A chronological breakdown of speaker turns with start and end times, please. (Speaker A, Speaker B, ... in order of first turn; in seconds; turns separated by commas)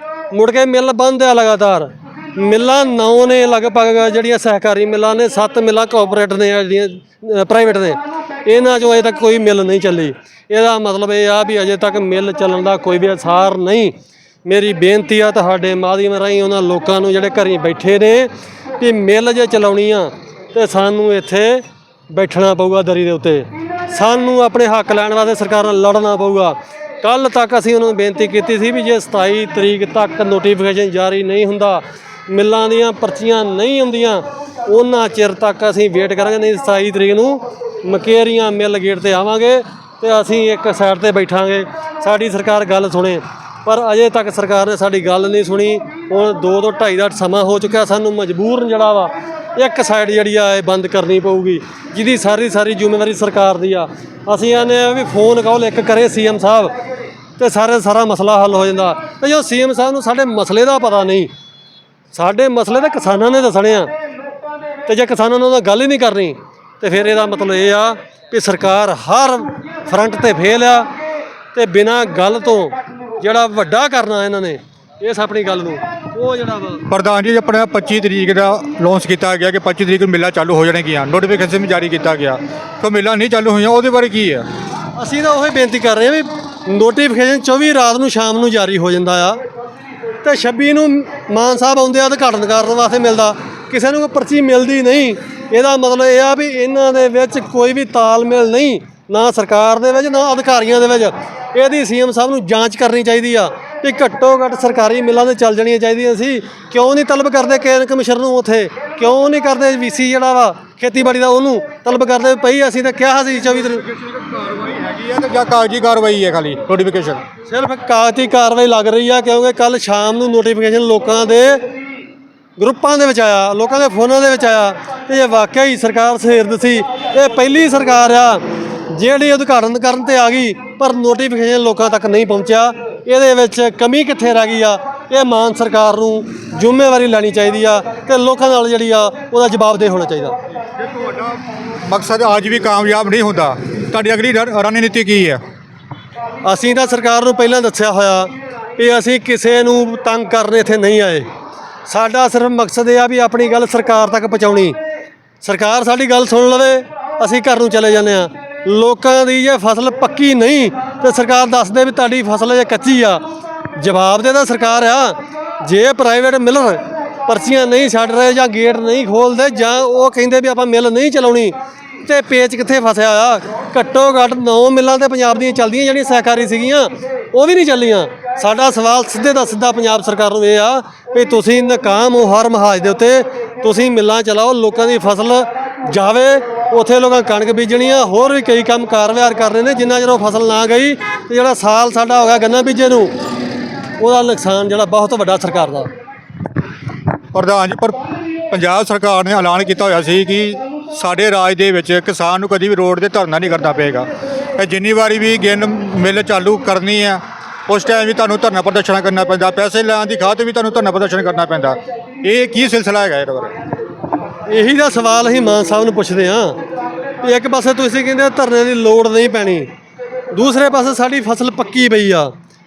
Speaker A: 0.3-56.7, Speaker A: 57.4-61.3, Speaker A: 62.1-63.9, Speaker A: 64.9-70.9, Speaker A: 71.5-76.8, Speaker B: 76.9-84.5, Speaker A: 85.0-89.4, Speaker A: 90.2-113.8, Speaker B: 114.0-117.2, Speaker A: 117.5-121.7, Speaker A: 122.6-140.4, Speaker B: 140.8-145.4, Speaker A: 146.4-151.3, Speaker A: 151.9-154.8, Speaker A: 155.4-163.2, Speaker A: 163.8-193.2, Speaker A: 194.0-195.9, Speaker B: 197.3-198.0, Speaker B: 198.5-204.1, Speaker B: 204.6-213.5, Speaker A: 214.5-216.6, Speaker A: 217.2-219.7, Speaker A: 220.3-222.3